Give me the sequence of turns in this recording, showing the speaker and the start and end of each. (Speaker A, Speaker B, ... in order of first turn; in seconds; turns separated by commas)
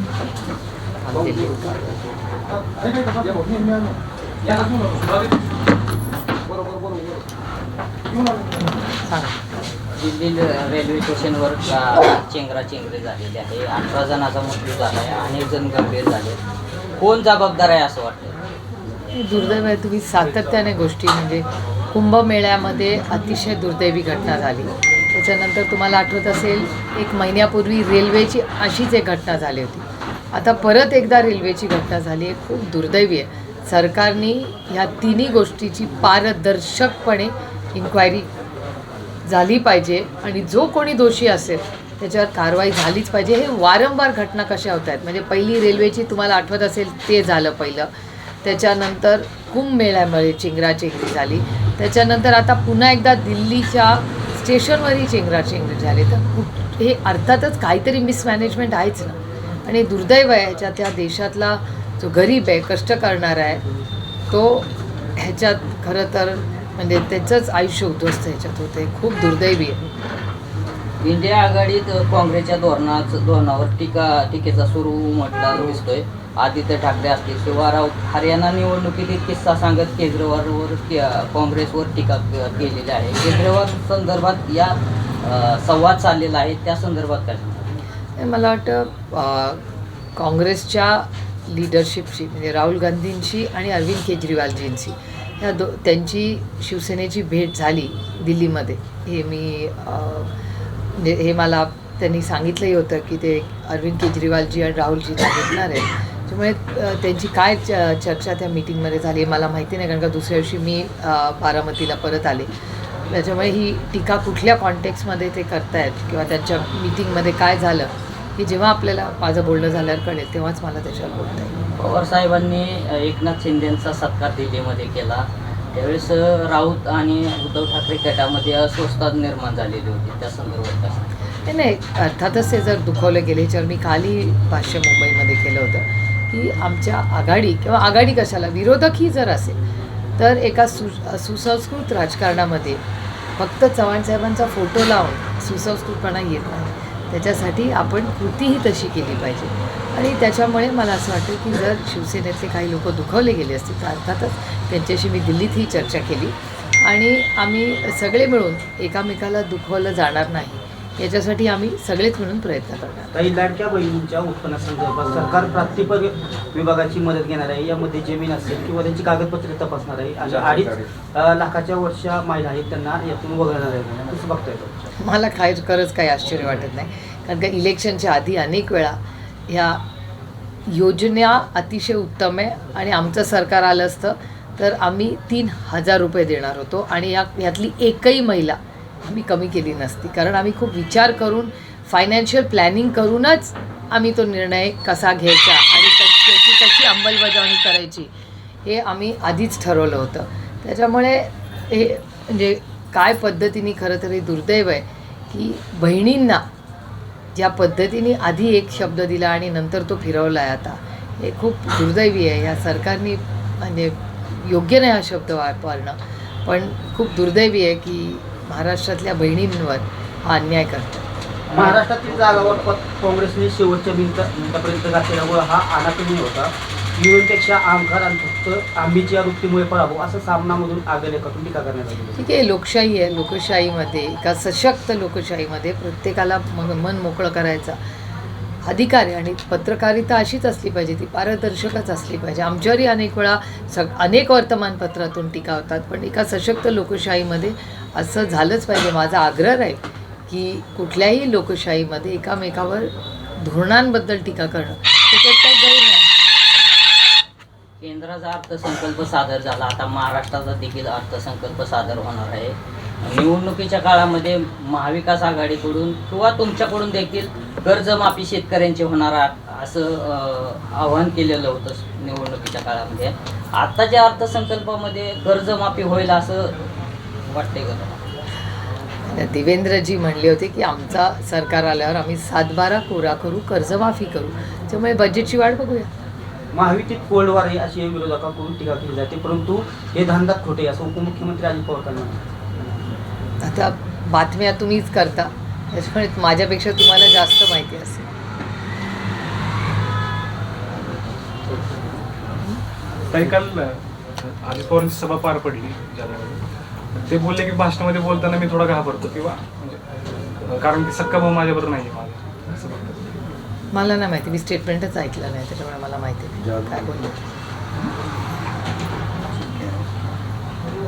Speaker A: 1.0-2.0, Speaker A: 8.6-9.5, Speaker B: 9.9-16.4, Speaker B: 17.0-18.4, Speaker A: 19.1-38.3, Speaker A: 39.2-47.9, Speaker A: 48.4-63.6, Speaker A: 64.3-69.9, Speaker B: 71.0-87.7, Speaker A: 88.2-89.6, Speaker A: 90.2-100.3, Speaker A: 100.9-112.5, Speaker A: 113.1-121.5, Speaker B: 121.8-131.1, Speaker A: 131.4-139.6, Speaker A: 140.2-142.8, Speaker A: 143.4-163.1, Speaker C: 163.1-174.7, Speaker A: 175.0-179.0, Speaker A: 179.5-179.8, Speaker A: 180.7-198.1, Speaker A: 198.6-206.5, Speaker A: 207.3-221.1, Speaker C: 221.5-232.2, Speaker A: 232.2-237.8, Speaker A: 238.6-256.1, Speaker B: 257.8-276.5, Speaker B: 277.2-278.0, Speaker A: 279.1-285.9, Speaker C: 286.5-292.9, Speaker A: 293.4-298.1, Speaker D: 303.1-306.4, Speaker D: 307.1-309.8, Speaker D: 310.4-313.2, Speaker A: 313.7-317.2